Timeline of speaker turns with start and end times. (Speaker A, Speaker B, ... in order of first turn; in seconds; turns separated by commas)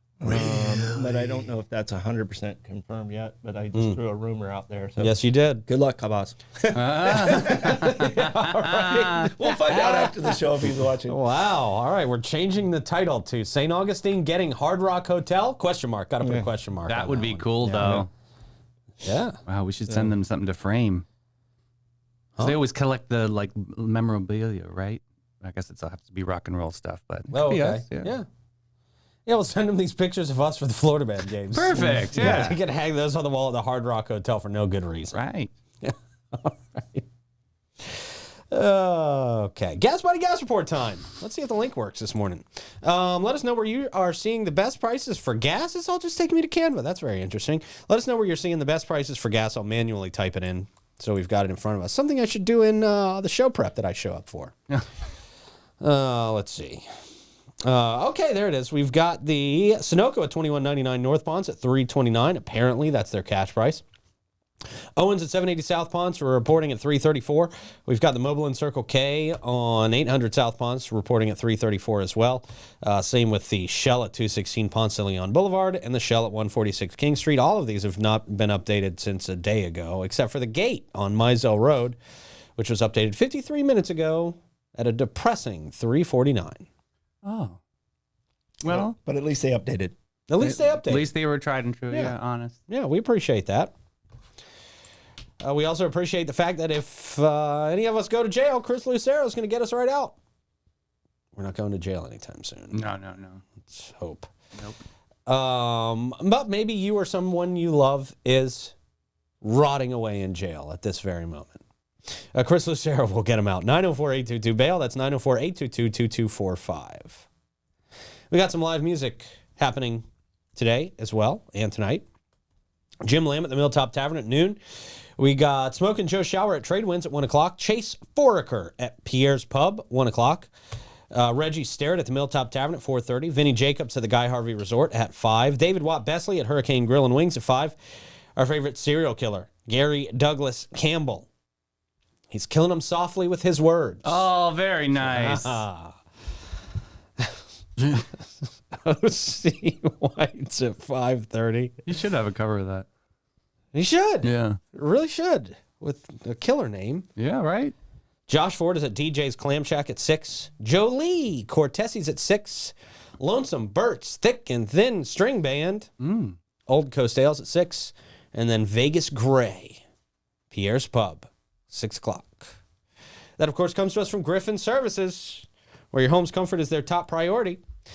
Speaker A: 0.2-5.2, Speaker B: 0.3-1.3, Speaker C: 3.7-4.0, Speaker C: 5.0-5.7, Speaker A: 5.7-11.2, Speaker B: 6.7-9.3, Speaker C: 7.2-10.4, Speaker C: 11.1-18.0, Speaker A: 16.2-16.5, Speaker B: 16.9-18.1, Speaker A: 17.6-18.1, Speaker C: 19.0-19.4, Speaker B: 19.5-21.1, Speaker B: 22.4-28.1, Speaker C: 27.3-28.3, Speaker C: 29.3-35.1, Speaker B: 31.5-32.6, Speaker B: 35.1-35.5, Speaker C: 35.8-37.0, Speaker C: 37.8-54.6, Speaker C: 55.8-56.9, Speaker C: 57.6-63.8, Speaker C: 65.0-82.0, Speaker C: 82.6-86.7, Speaker B: 87.2-87.6, Speaker B: 88.6-89.0, Speaker A: 88.7-90.0, Speaker C: 90.3-91.1, Speaker B: 90.4-92.6, Speaker C: 92.7-93.7, Speaker C: 95.4-100.2, Speaker C: 101.3-102.8, Speaker B: 102.7-103.4, Speaker C: 103.7-104.3, Speaker C: 105.3-108.8, Speaker C: 109.4-111.6, Speaker C: 112.3-117.3, Speaker C: 118.3-122.1, Speaker C: 123.0-124.6, Speaker C: 125.2-130.5, Speaker C: 131.1-137.8, Speaker C: 138.4-141.3, Speaker C: 142.3-144.3, Speaker B: 144.0-145.6, Speaker C: 145.0-146.0, Speaker C: 148.7-151.8, Speaker B: 151.9-152.9, Speaker C: 153.7-157.1, Speaker B: 154.2-154.6, Speaker B: 157.2-157.7, Speaker C: 158.3-165.9, Speaker B: 166.0-166.4, Speaker C: 166.7-169.8, Speaker C: 170.5-172.5, Speaker C: 173.4-177.6